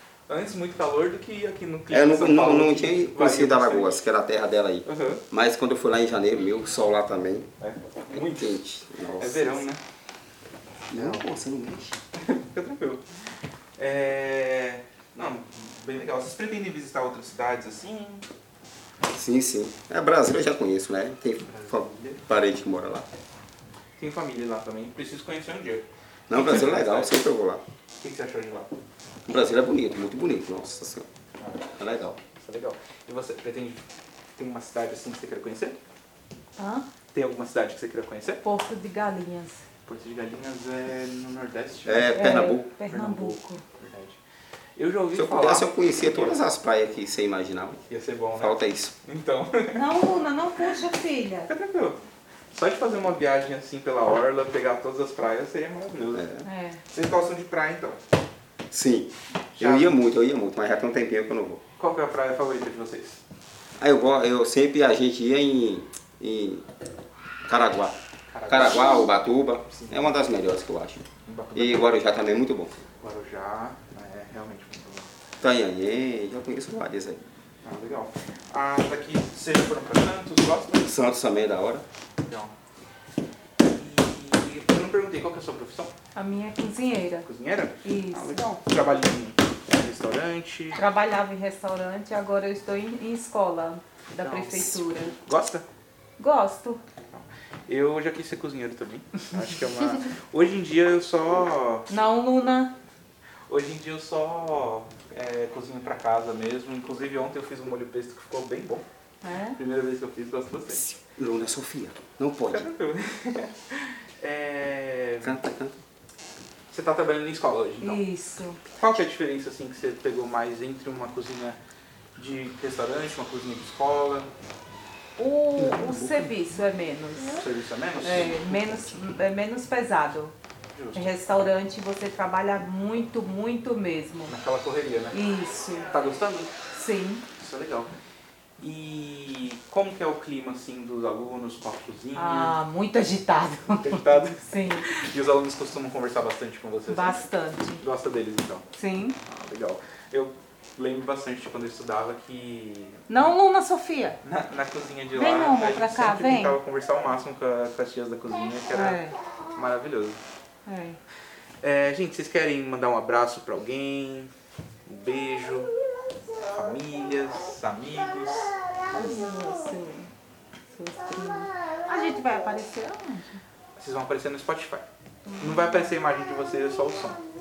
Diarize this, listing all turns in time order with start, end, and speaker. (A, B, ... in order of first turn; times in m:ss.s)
0:00.3-0:04.0 A
0:01.9-0:07.5 B
0:04.8-0:05.2 A
0:07.6-0:08.6 A
0:08.1-0:09.7 B
0:09.2-0:09.8 A
0:10.9-0:11.2 A
0:10.9-0:12.0 B
0:12.2-0:13.0 A
0:13.8-0:18.3 A
0:19.1-0:23.1 B
0:21.4-0:22.3 A
0:24.0-0:27.1 A
0:26.3-0:27.6 B
0:28.0-0:28.7 A
0:29.3-0:31.1 B
0:31.4-0:31.7 A
0:31.7-0:32.2 B
0:32.2-0:33.8 A
0:34.4-0:35.8 A
0:36.6-0:36.9 C
0:37.1-0:38.4 A
0:38.4-0:39.6 C
0:39.9-0:44.2 A
0:41.8-0:42.7 B
0:42.1-0:43.6 C
0:44.8-0:46.4 A
0:45.1-0:47.8 B
0:47.9-0:49.8 A
0:48.4-0:48.9 B
0:49.7-0:51.5 C
0:51.5-0:52.0 A
0:52.5-0:56.3 A
0:56.1-0:56.4 B
0:56.4-0:56.8 C
0:56.9-0:58.0 A
0:58.7-1:01.6 B
0:59.6-1:00.0 A
1:01.8-1:03.2 A
1:03.8-1:06.7 B
1:07.5-1:08.0 B
1:08.3-1:09.2 A
1:08.5-1:12.8 B
1:09.7-1:10.1 A
1:11.3-1:12.0 A
1:13.0-1:15.1 A
1:15.4-1:17.2 B
1:17.6-1:20.9 A
1:20.8-1:21.8 B
1:22.3-1:22.5 A
1:23.6-1:25.9 A
1:26.2-1:27.3 C
1:27.2-1:30.8 A
1:27.8-1:28.4 C
1:30.7-1:35.2 C
1:34.2-1:35.6 A
1:36.2-1:36.8 C
1:37.1-1:41.9 A
1:41.9-1:42.7 C
1:43.5-1:48.8 A
1:49.2-1:49.6 C
1:49.6-1:50.8 A
1:50.7-1:52.7 B
1:52.5-1:55.4 A
1:55.2-1:55.7 B
1:56.7-1:58.0 A
1:57.8-1:58.6 C
1:58.7-2:01.6 A
2:02.2-2:04.3 A
2:05.2-2:07.5 C
2:05.6-2:06.2 A
2:07.4-2:09.0 A
2:08.0-2:10.4 C
2:10.7-2:11.2 A
2:11.0-2:14.4 C
2:14.3-2:15.2 A
2:15.1-2:15.9 C
2:15.9-2:16.5 A
2:16.7-2:17.2 C
2:17.4-2:17.9 A
2:18.6-2:22.6 A
2:22.2-2:24.9 C
2:23.8-2:27.3 A
2:26.9-2:27.8 C
2:27.8-2:28.7 A
2:28.7-2:29.2 C
2:29.2-2:33.2 A
2:33.1-2:34.2 C
2:34.2-2:39.0 A
2:35.1-2:36.6 C
2:38.7-2:39.2 C
2:39.5-2:40.2 A
2:40.7-2:41.0 C
2:41.6-2:44.3 A
2:44.9-2:45.7 A
2:46.4-2:48.6 A
2:48.9-2:50.1 C
2:50.7-2:53.4 C
2:53.8-2:54.8 A
2:55.3-2:55.9 C
2:55.4-2:57.2 A